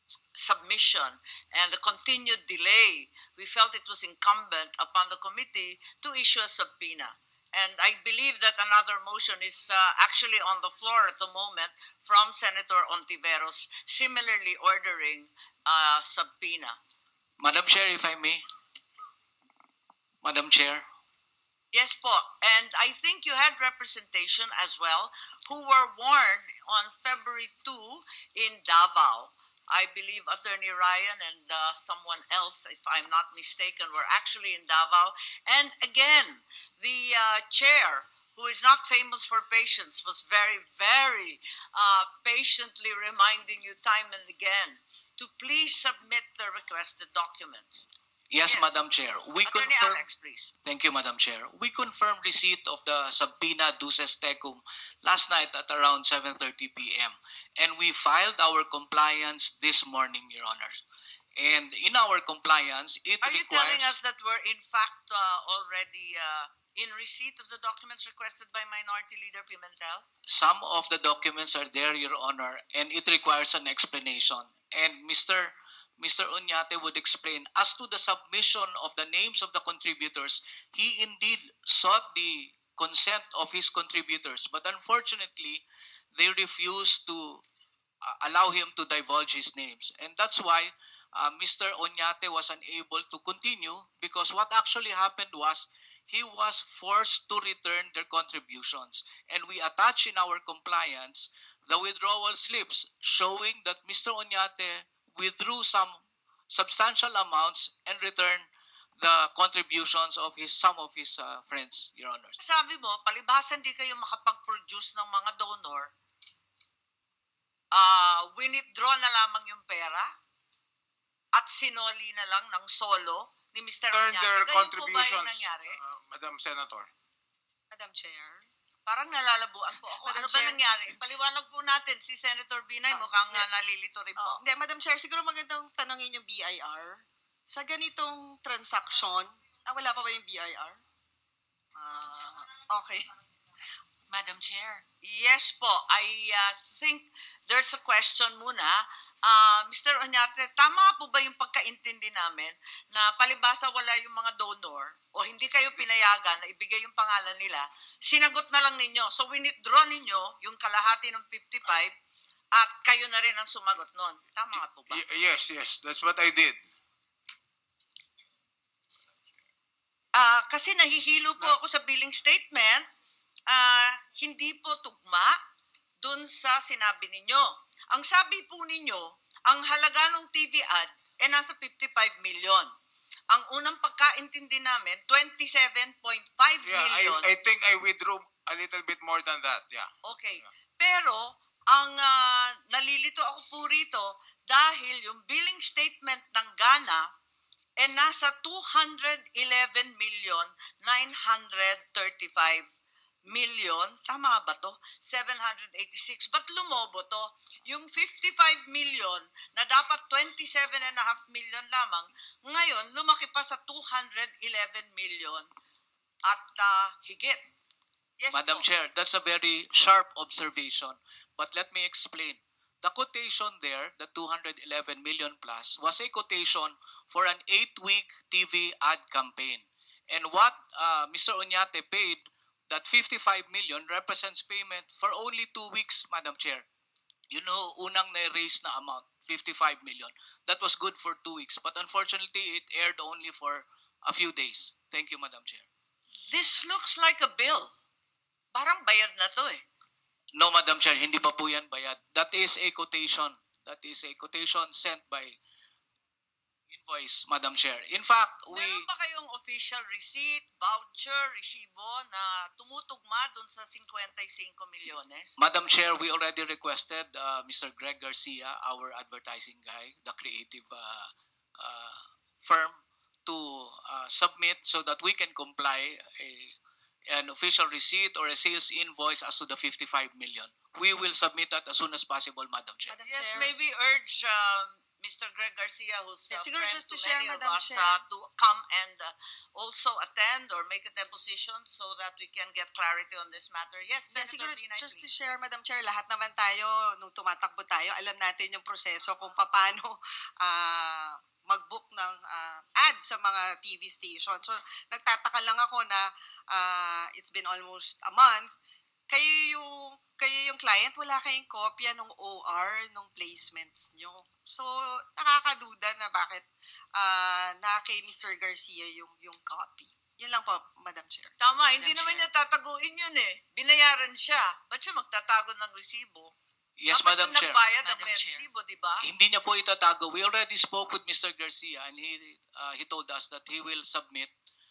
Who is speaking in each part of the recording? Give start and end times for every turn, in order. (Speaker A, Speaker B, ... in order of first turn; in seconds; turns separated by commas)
Speaker A: 0.3-16.8, Speaker B: 17.4-18.4, Speaker B: 20.2-20.9, Speaker A: 21.7-47.8, Speaker B: 48.3-50.0, Speaker A: 49.4-50.5, Speaker B: 50.6-60.8, Speaker B: 61.4-64.0, Speaker A: 63.2-70.0, Speaker B: 70.3-85.6, Speaker B: 86.2-87.4, Speaker B: 88.0-108.5, Speaker B: 109.0-112.3, Speaker A: 112.4-115.9, Speaker A: 117.7-120.1, Speaker A: 121.3-125.8, Speaker C: 123.9-126.9, Speaker D: 127.7-128.4, Speaker A: 128.8-134.4, Speaker D: 130.0-130.6, Speaker D: 132.9-133.4, Speaker D: 134.2-140.8, Speaker D: 141.8-143.1, Speaker E: 144.1-144.8, Speaker A: 145.0-161.9, Speaker A: 162.5-165.0, Speaker C: 164.5-166.6, Speaker A: 170.1-172.8, Speaker A: 173.5-175.4, Speaker A: 176.0-182.7, Speaker A: 183.3-187.3, Speaker C: 186.6-190.5, Speaker A: 190.0-197.1, Speaker A: 197.8-202.7, Speaker A: 203.2-215.5, Speaker A: 216.2-217.4, Speaker A: 218.2-218.6, Speaker B: 218.3-236.6, Speaker B: 237.3-245.7, Speaker A: 246.3-247.7, Speaker A: 248.5-249.6, Speaker B: 250.3-255.4, Speaker B: 256.7-258.9, Speaker A: 258.5-265.3, Speaker B: 265.4-276.5, Speaker B: 277.1-283.0, Speaker D: 282.9-283.5, Speaker A: 283.0-295.1, Speaker D: 286.3-288.0, Speaker D: 294.1-308.5, Speaker D: 309.1-321.3, Speaker A: 321.4-326.3, Speaker E: 321.7-322.3, Speaker B: 326.8-327.6, Speaker A: 326.9-329.0, Speaker E: 327.8-328.5, Speaker B: 329.0-334.3